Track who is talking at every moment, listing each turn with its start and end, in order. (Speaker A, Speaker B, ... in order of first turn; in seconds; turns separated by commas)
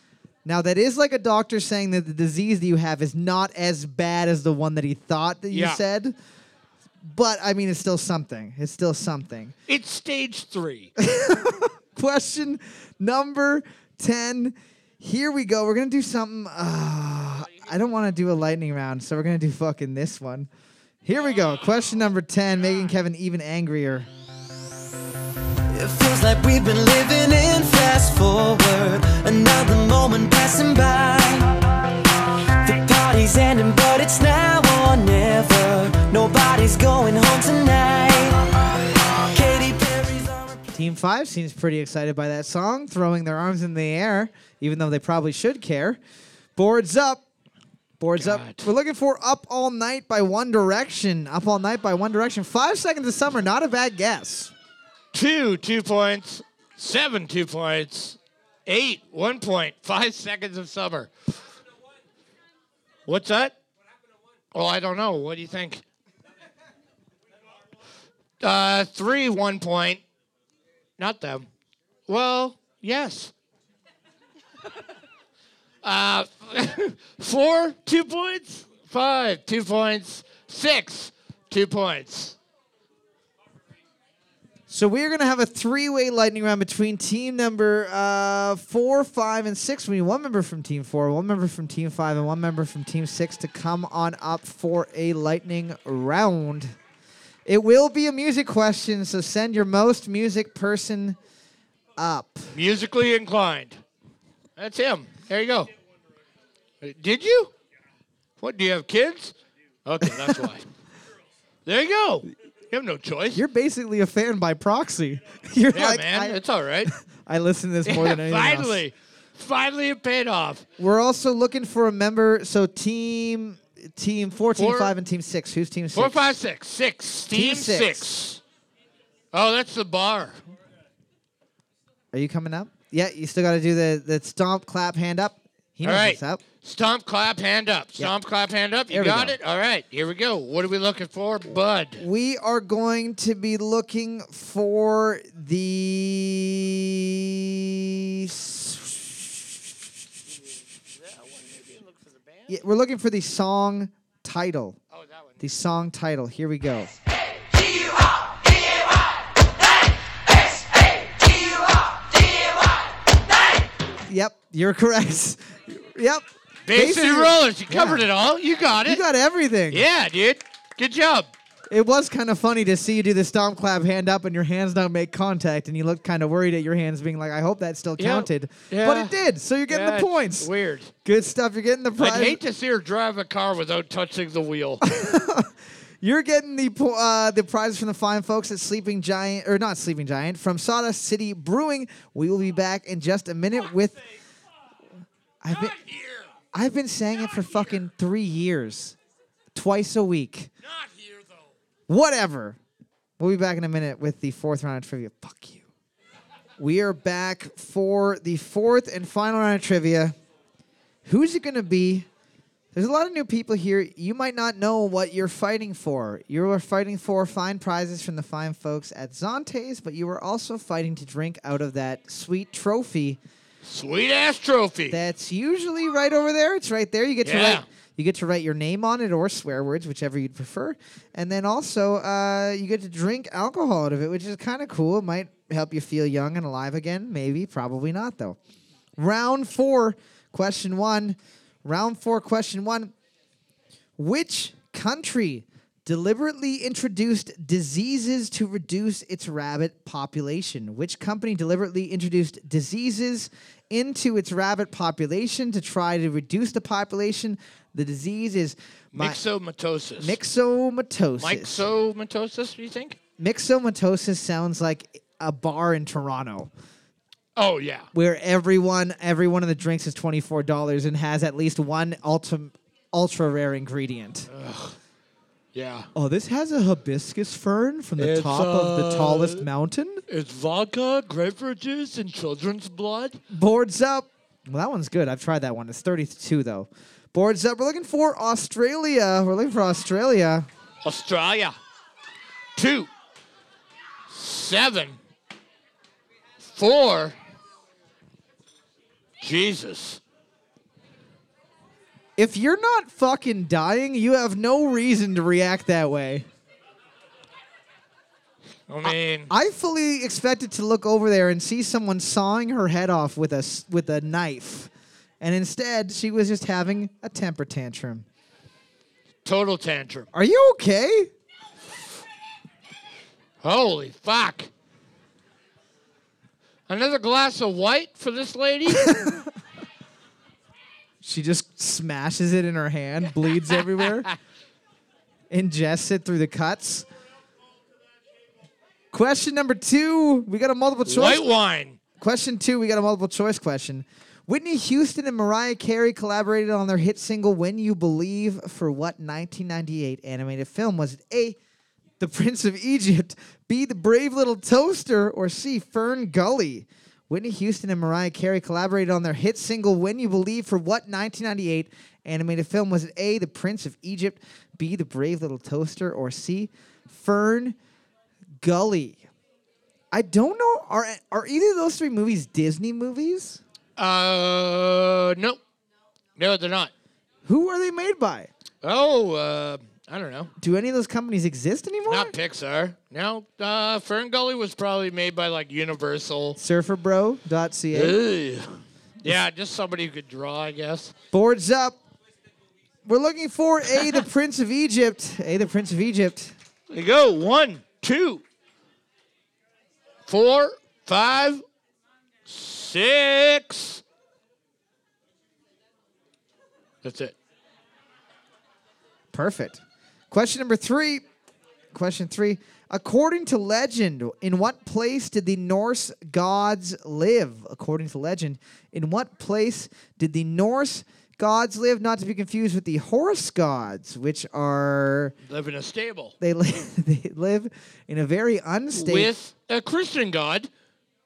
Speaker A: 0.4-6.1, Speaker B: 5.5-5.8, Speaker A: 7.0-9.5, Speaker B: 9.7-10.9, Speaker A: 11.0-20.5, Speaker A: 21.0-24.1, Speaker C: 25.7-31.6, Speaker C: 32.6-38.5, Speaker C: 39.2-40.6, Speaker A: 40.7-46.0, Speaker A: 46.5-47.2, Speaker A: 48.0-54.5, Speaker B: 48.1-48.7, Speaker B: 55.1-61.1, Speaker B: 63.1-63.5, Speaker B: 64.5-65.8, Speaker B: 68.4-70.0, Speaker B: 71.0-71.5, Speaker B: 72.1-73.3, Speaker B: 75.8-82.4, Speaker A: 84.7-96.7, Speaker A: 97.5-101.2, Speaker A: 102.0-102.5, Speaker B: 102.5-103.8, Speaker B: 104.6-105.7, Speaker B: 106.8-107.5, Speaker B: 108.4-110.6, Speaker B: 111.7-113.4, Speaker A: 113.3-118.8, Speaker B: 115.7-116.9, Speaker B: 117.8-120.6, Speaker A: 120.8-126.2, Speaker B: 124.5-124.9, Speaker B: 125.9-128.4, Speaker A: 127.3-128.1, Speaker B: 129.3-130.3, Speaker A: 132.1-136.4, Speaker B: 135.8-142.0, Speaker A: 138.9-139.3, Speaker A: 142.0-149.3, Speaker B: 151.0-152.5, Speaker A: 152.5-154.8, Speaker B: 154.9-155.3, Speaker A: 155.4-156.9, Speaker A: 164.1-168.1, Speaker B: 166.6-169.0, Speaker A: 168.8-169.8, Speaker B: 169.7-171.3, Speaker A: 171.7-180.5, Speaker B: 178.0-179.1, Speaker B: 179.7-180.9, Speaker A: 181.0-182.4, Speaker B: 182.0-184.8, Speaker A: 184.8-194.0, Speaker A: 195.4-195.8, Speaker B: 195.5-196.3, Speaker A: 196.5-198.9, Speaker A: 199.5-200.5, Speaker B: 200.6-201.5, Speaker A: 201.9-202.6, Speaker A: 203.2-205.6, Speaker A: 206.6-210.1, Speaker A: 211.0-212.1, Speaker A: 212.7-223.2, Speaker B: 223.6-225.0, Speaker A: 224.9-238.4, Speaker B: 227.2-227.7, Speaker A: 239.0-242.9, Speaker A: 244.0-259.2, Speaker B: 258.9-260.2, Speaker A: 260.0-261.6, Speaker B: 261.2-263.0, Speaker A: 263.2-266.5, Speaker B: 267.4-267.9, Speaker A: 267.9-274.3, Speaker B: 274.3-274.8, Speaker B: 275.5-275.9, Speaker A: 275.9-280.0, Speaker B: 278.0-279.4, Speaker B: 280.1-283.2, Speaker A: 283.3-290.5, Speaker B: 290.8-291.6, Speaker B: 292.6-292.9, Speaker B: 294.1-295.0, Speaker B: 296.4-297.1, Speaker B: 299.2-300.0, Speaker A: 302.2-306.2, Speaker B: 308.7-309.3, Speaker A: 308.8-318.0, Speaker B: 319.2-320.1, Speaker A: 320.1-321.1, Speaker B: 323.4-324.5, Speaker B: 326.7-328.9, Speaker A: 328.7-329.3, Speaker A: 331.0-334.1, Speaker A: 335.3-336.9, Speaker A: 338.9-341.2, Speaker B: 340.9-341.8, Speaker A: 342.0-351.4, Speaker A: 352.0-367.6, Speaker A: 368.4-369.0, Speaker A: 369.9-373.4, Speaker B: 373.8-375.4, Speaker B: 376.2-376.7, Speaker A: 377.2-378.3, Speaker B: 378.6-380.3, Speaker A: 380.4-382.1, Speaker B: 381.9-386.4, Speaker A: 386.4-388.0, Speaker B: 387.7-390.9, Speaker A: 391.1-391.8, Speaker A: 392.8-396.3, Speaker B: 396.7-398.2, Speaker B: 400.1-401.4, Speaker B: 402.2-403.8, Speaker B: 406.8-407.1, Speaker A: 409.1-411.0, Speaker A: 411.7-425.1, Speaker B: 425.2-426.1, Speaker A: 426.2-429.1, Speaker B: 428.7-430.5